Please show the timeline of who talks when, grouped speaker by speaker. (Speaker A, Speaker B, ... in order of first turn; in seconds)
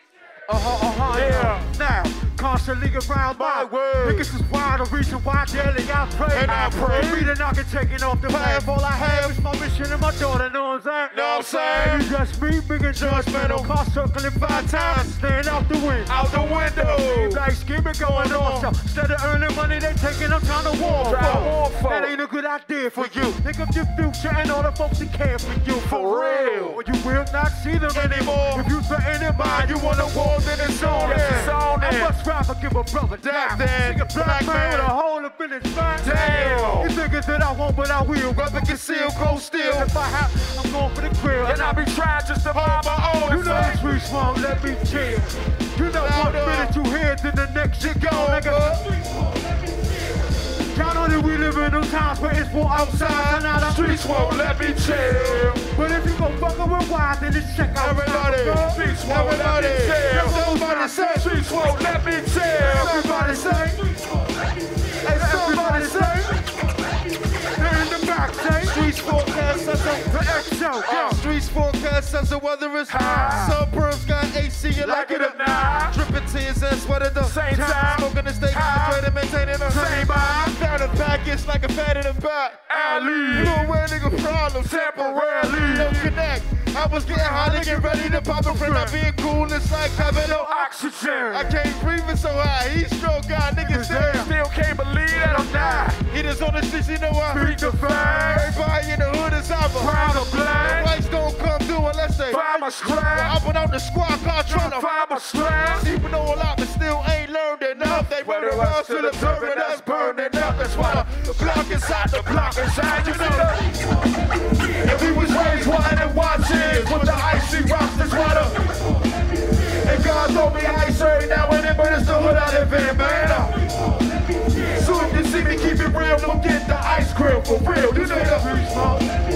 Speaker A: 0.5-36.2, 36.8-41.8, 43.2-48.9, 50.7-54.1, 55.7-58.8, 60.1-61.0, 62.7-63.8, 65.0-66.4, 67.6-68.8, 70.1-71.2, 75.3-75.9, 77.5-78.0, 79.7-80.3, 86.8-89.0, 90.0-91.6, 93.6-94.3, 95.2-95.9, 97.4-98.5, 100.0-100.5, 102.3-103.0, 127.9-129.1
Speaker B: 1.1-1.7, 6.4-7.1, 11.1-12.1, 16.2-16.7, 20.9-22.1, 25.9-26.8, 31.0-32.1, 36.0-36.9, 41.4-43.8, 53.5-55.7, 58.6-60.4, 61.0-62.9, 70.9-71.2, 72.9-73.6, 74.8-76.0, 77.2-79.1, 79.7-80.6, 82.7-83.7, 84.6-86.2, 90.3-91.4, 94.0-96.0, 97.3-98.6, 99.8-101.0, 102.3-103.4, 104.5-105.9, 107.7-113.8, 115.1-118.5, 119.8-123.6, 124.8-128.4
Speaker C: 3.3-4.3, 6.3-7.4, 8.3-9.4, 11.1-12.1, 12.9-13.7, 14.4-15.2, 16.1-17.4, 18.0-18.7, 22.9-23.4, 26.2-26.7, 27.9-28.7, 29.3-31.6, 33.2-34.9, 36.0-36.9, 38.3-39.9, 42.5-43.7, 45.8-46.7, 47.8-48.8, 52.7-53.5, 54.0-54.6, 57.8-61.4, 62.6-63.9, 65.0-66.3, 68.6-70.1, 70.8-90.6, 91.3-94.3, 96.0-97.5, 98.3-102.4, 103.1-105.0, 105.7-113.6, 114.8-118.6, 122.3-123.5, 124.8-125.8, 127.6-128.5